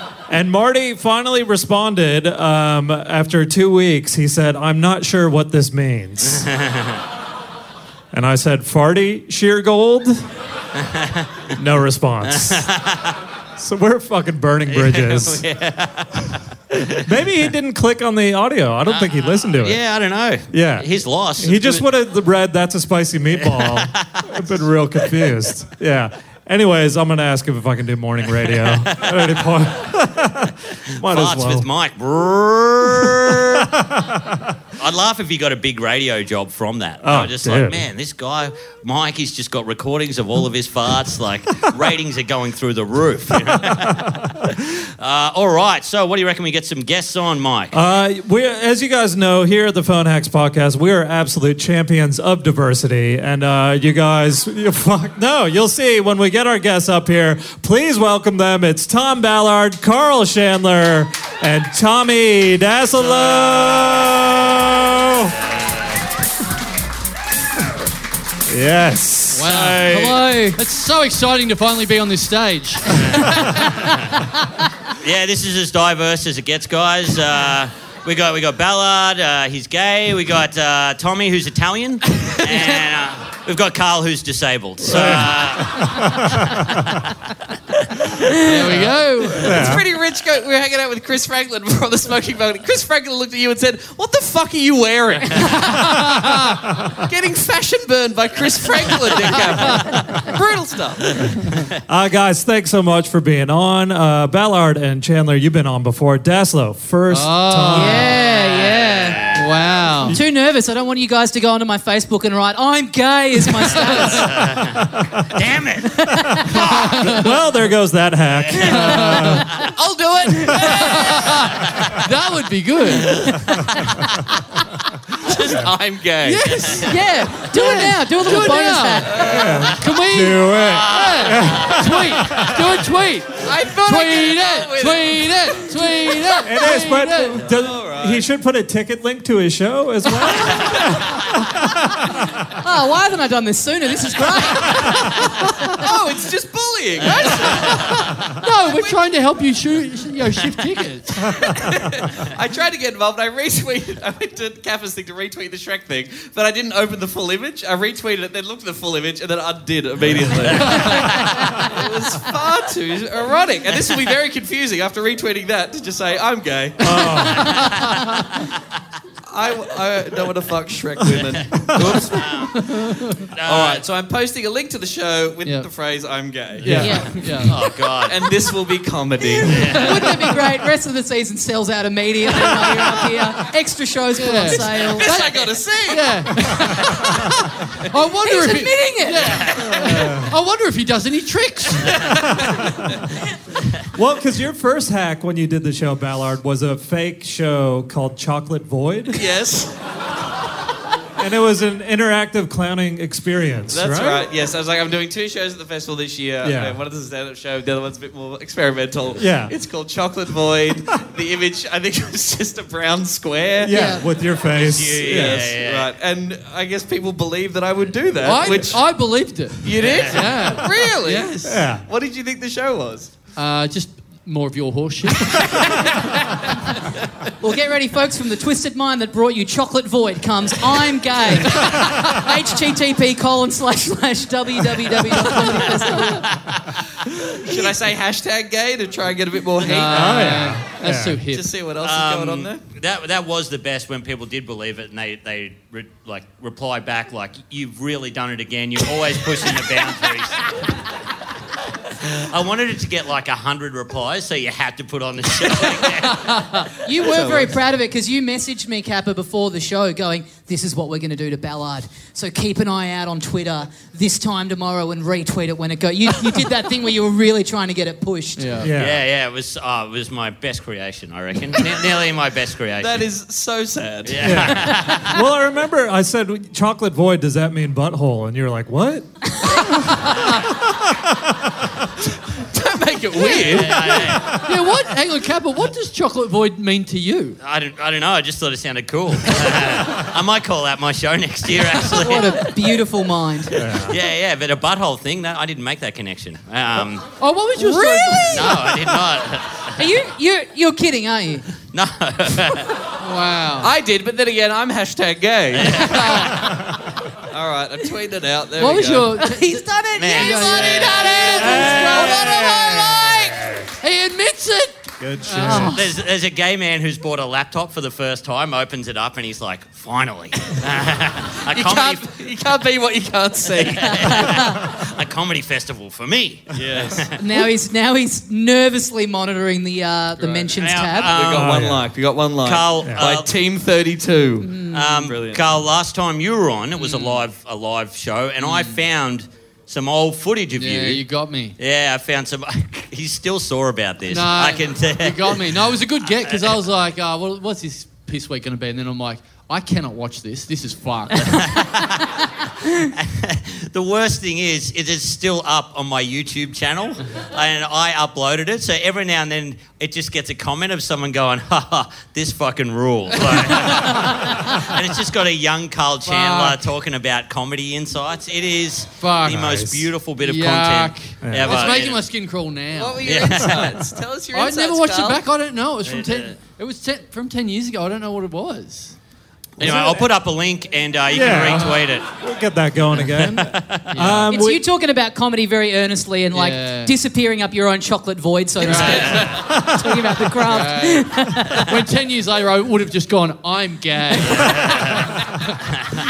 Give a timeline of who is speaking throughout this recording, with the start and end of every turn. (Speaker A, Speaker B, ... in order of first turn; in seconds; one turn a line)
Speaker A: 0.3-6.5
Speaker B: 6.3-7.0
Speaker A: 8.1-10.2
Speaker B: 10.8-11.3
Speaker A: 11.6-12.7
Speaker B: 12.3-13.2
Speaker A: 13.6-15.4
Speaker B: 14.7-17.1
Speaker A: 17.0-19.8
Speaker B: 18.9-21.9
Speaker A: 20.5-31.7
Speaker B: 23.4-24.3
Speaker B: 28.5-29.4
Speaker B: 31.0-33.7
Speaker A: 32.9-34.5
Speaker B: 34.8-47.8
Speaker A: 37.0-37.9
Speaker A: 43.3-44.4
Speaker A: 47.7-65.4
Speaker B: 62.9-64.6
Speaker B: 65.2-66.1
Speaker A: 68.5-69.5
Speaker C: 69.3-73.5
Speaker B: 69.4-70.3
Speaker D: 69.9-70.6
Speaker B: 72.9-74.2
Speaker A: 73.1-73.5
Speaker B: 74.9-87.0
Speaker A: 84.8-87.0
Speaker B: 87.7-88.8
Speaker C: 88.4-89.5
Speaker A: 89.4-89.8
Speaker E: 89.5-101.4
Speaker A: 96.0-97.0
Speaker B: 99.5-100.3
Speaker A: 101.8-108.1
Speaker C: 107.1-108.2
Speaker D: 107.7-109.3
Speaker B: 108.2-109.5
Speaker C: 109.3-110.2
Speaker D: 110.1-114.5
Speaker B: 114.0-117.2
Speaker A: 114.3-115.3
Speaker D: 116.0-116.6
Speaker A: 116.2-119.5
Speaker C: 116.7-117.3
Speaker B: 118.5-119.0
Speaker C: 118.6-119.5
Speaker E: 119.5-121.2
Speaker B: 120.5-121.8
Speaker C: 120.7-123.3
Speaker B: 123.1-123.5
Speaker E: 125.2-126.8
Speaker C: 126.2-137.4
Speaker B: 126.5-126.8
Speaker D: 126.8-129.4
Speaker E: 129.0-129.6
Speaker A: 129.2-132.6
Speaker B: 130.7-132.6
Speaker E: 133.4-136.1
Speaker A: 136.4-142.3
Speaker E: 137.4-138.2
Speaker E: 140.5-140.9
Speaker D: 142.5-145.7
Speaker E: 145.7-149.0
Speaker C: 147.1-151.5
Speaker E: 151.4-167.3
Speaker B: 160.4-161.7
Speaker A: 166.8-167.7
Speaker C: 167.2-168.1
Speaker B: 167.5-168.1
Speaker E: 169.3-172.2
Speaker A: 171.1-172.1
Speaker B: 171.6-172.8
Speaker C: 172.5-173.2
Speaker B: 173.3-173.8
Speaker E: 173.4-180.0
Speaker A: 176.6-177.0
Speaker C: 176.6-177.6
Speaker D: 176.8-177.2
Speaker B: 177.4-178.3
Speaker D: 179.3-185.3
Speaker B: 179.4-180.2
Speaker C: 179.6-180.4
Speaker C: 184.2-187.3
Speaker E: 184.6-186.3
Speaker D: 186.9-187.3
Speaker C: 187.9-192.3
Speaker D: 188.2-189.6
Speaker B: 189.2-189.7
Speaker A: 189.6-190.3
Speaker A: 193.9-199.2
Speaker E: 199.1-199.8
Speaker A: 201.2-204.3
Speaker E: 203.7-214.0
Speaker A: 206.4-206.8
Speaker A: 209.2-209.5
Speaker A: 213.6-215.5
Speaker D: 213.7-214.1
Speaker B: 214.5-215.9
Speaker E: 215.0-218.9
Speaker C: 218.2-221.6
Speaker E: 219.6-223.1
Speaker B: 219.8-220.2
Speaker A: 221.4-221.8
Speaker C: 223.4-226.7
Speaker D: 227.4-236.3
Speaker A: 231.7-232.1
Speaker B: 236.2-236.7
Speaker E: 237.3-240.6
Speaker C: 239.6-241.5
Speaker A: 239.9-241.2
Speaker E: 241.3-242.6
Speaker B: 241.8-250.6
Speaker B: 252.0-256.7
Speaker D: 256.8-268.7
Speaker E: 257.0-257.6
Speaker C: 268.4-268.7
Speaker A: 268.6-269.0
Speaker B: 268.8-273.1
Speaker E: 272.8-274.7
Speaker B: 274.1-275.2
Speaker A: 274.2-281.8
Speaker E: 282.4-284.2
Speaker D: 283.2-283.5
Speaker C: 283.4-287.4
Speaker B: 283.4-284.4
Speaker A: 284.1-284.5
Speaker B: 287.4-292.6
Speaker D: 291.9-293.6
Speaker A: 293.6-294.0
Speaker B: 293.6-297.1
Speaker C: 297.2-298.8
Speaker D: 297.9-298.4
Speaker B: 298.2-299.8
Speaker D: 299.8-301.5
Speaker B: 301.7-302.8
Speaker C: 303.0-303.7
Speaker E: 303.6-306.6
Speaker B: 305.6-306.3
Speaker E: 307.3-309.2
Speaker C: 308.6-313.2
Speaker D: 309.2-313.0
Speaker B: 310.0-312.4
Speaker A: 311.3-313.7
Speaker C: 313.8-315.8
Speaker A: 315.0-315.8
Speaker D: 315.4-315.8
Speaker B: 315.6-322.1
Speaker E: 321.5-324.4
Speaker B: 323.8-327.2
Speaker D: 324.0-324.5
Speaker E: 326.5-327.1
Speaker D: 327.2-331.2
Speaker E: 330.2-335.5
Speaker B: 330.6-331.7
Speaker A: 331.4-331.9
Speaker B: 332.4-333.3
Speaker D: 334.4-335.0
Speaker B: 334.7-341.0
Speaker C: 336.8-337.2
Speaker C: 338.4-338.8
Speaker C: 340.6-341.6
Speaker B: 341.6-345.4
Speaker C: 344.1-351.5
Speaker B: 346.3-346.5
Speaker B: 351.2-372.0
Speaker C: 366.1-366.6
Speaker C: 369.0-369.5
Speaker A: 369.2-369.9
Speaker C: 370.2-373.1
Speaker A: 371.2-371.6
Speaker E: 372.8-375.2
Speaker B: 373.0-373.7
Speaker C: 374.3-379.0
Speaker B: 375.9-376.3
Speaker B: 379.6-382.1
Speaker C: 379.6-380.0
Speaker A: 381.1-384.6
Speaker C: 381.2-381.8
Speaker B: 383.1-383.9
Speaker C: 383.9-384.3
Speaker D: 384.3-391.7
Speaker C: 386.3-386.9
Speaker C: 388.6-389.5
Speaker B: 388.7-389.4
Speaker A: 389.4-390.2
Speaker C: 390.4-395.5
Speaker B: 394.4-395.1